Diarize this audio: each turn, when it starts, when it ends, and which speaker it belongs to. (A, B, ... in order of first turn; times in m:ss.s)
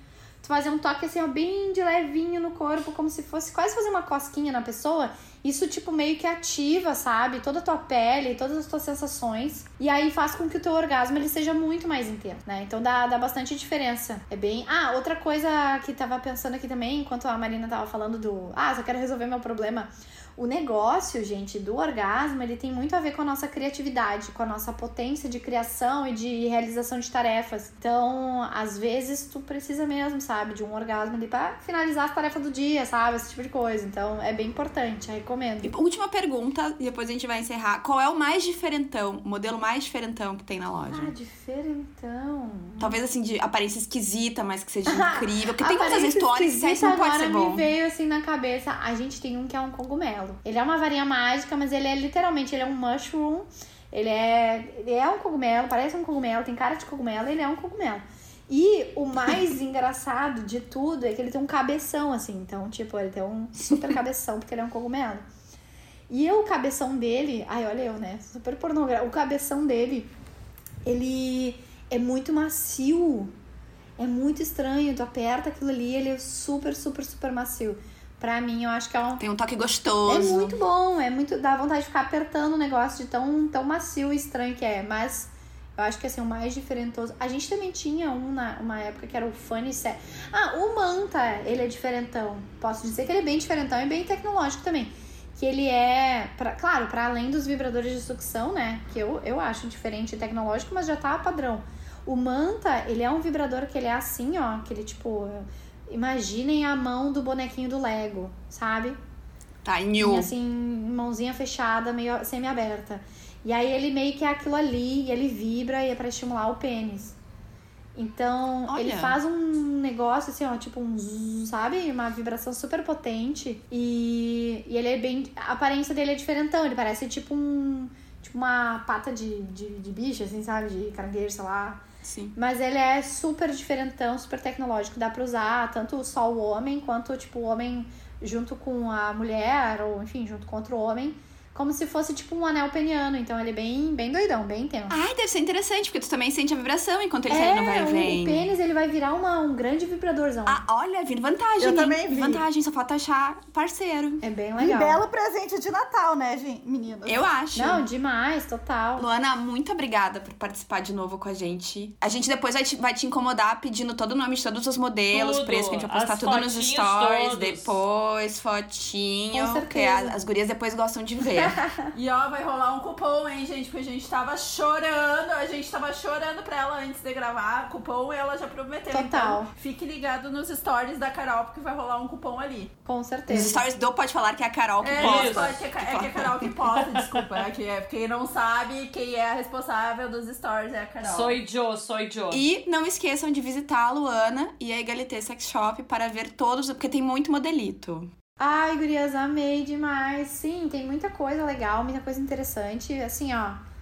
0:00.4-0:35.7 A
0:35.6-0:41.1 B
0:40.9-0:43.0 A
0:42.8-0:47.6 B
0:44.9-1:05.2 A
1:06.1-1:10.1 A
1:10.8-1:13.3 A
1:14.0-1:19.2 A
1:19.2-1:20.6 B
1:20.0-1:49.0 A
1:49.6-1:50.3 B
1:50.0-1:57.1 A
1:58.0-2:11.8 A
1:58.7-1:59.2 B
2:12.0-2:12.4 B
2:12.4-2:25.0 A
2:24.9-2:28.4 B
2:27.3-2:30.6 A
2:30.4-2:34.2 B
2:31.6-2:32.4 C
2:34.2-2:35.0 A
2:34.6-2:37.2 C
2:37.0-2:37.8 B
2:37.5-2:39.0 A
2:39.0-2:51.6 B
2:45.1-2:47.7 D
2:49.3-2:50.2 A
2:51.3-2:51.9 A
2:51.9-3:02.7 E
2:58.9-2:59.5 A
3:02.8-3:03.6 A
3:03.3-3:06.5 B
3:04.8-3:11.4 E
3:05.0-3:05.5 D
3:11.0-3:12.4 D
3:12.3-3:18.1 B
3:18.4-3:23.6 A